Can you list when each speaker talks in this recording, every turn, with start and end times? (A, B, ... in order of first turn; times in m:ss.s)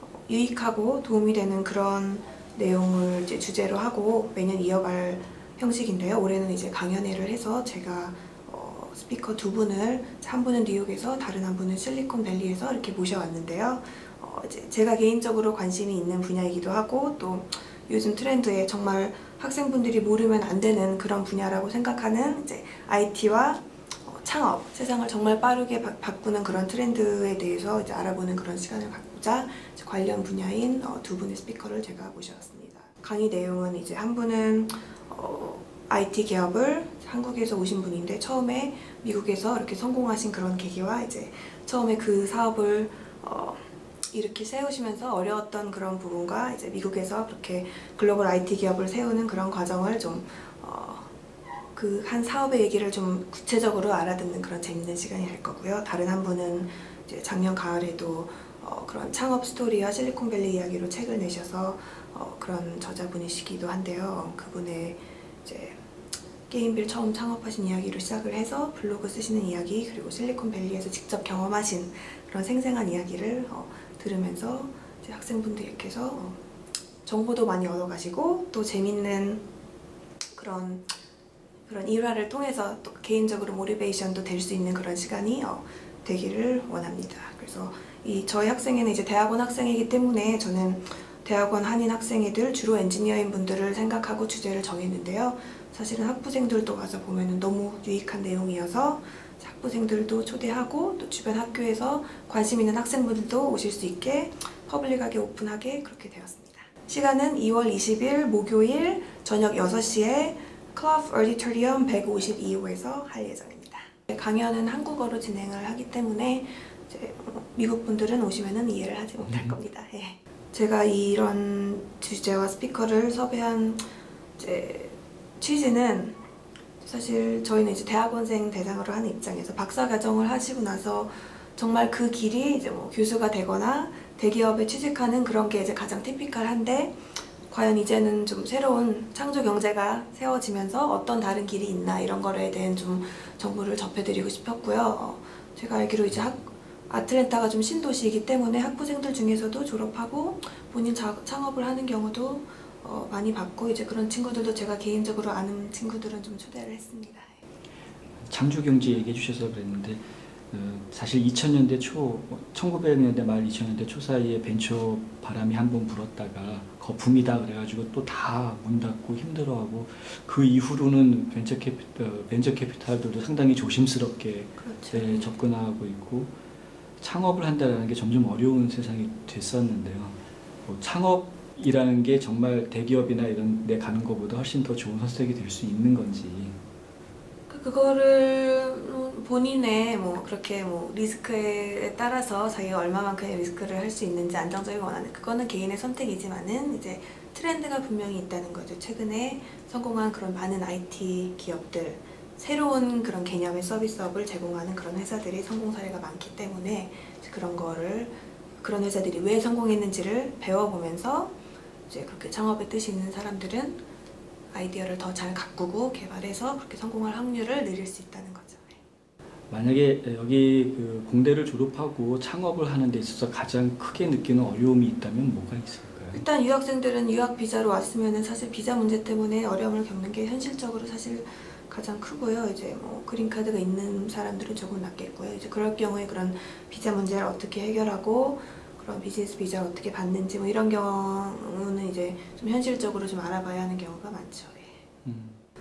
0:00.3-0:51.1 A
0:51.7-1:05.8 A
1:06.5-1:16.4 A
1:17.0-1:19.4 A
1:20.3-1:20.9 A
1:21.7-2:03.8 A
1:59.3-1:59.5 B
2:04.4-2:06.2 A
2:06.8-2:37.4 A
2:38.2-2:40.0 B
2:40.5-2:56.3 B
2:54.6-2:55.4 A
2:57.0-3:06.6 B
3:07.5-3:31.3 A
3:31.9-3:33.8 A
3:34.5-3:38.8 A
3:39.5-3:46.2 B
3:46.1-4:04.7 A
4:05.0-4:05.4 B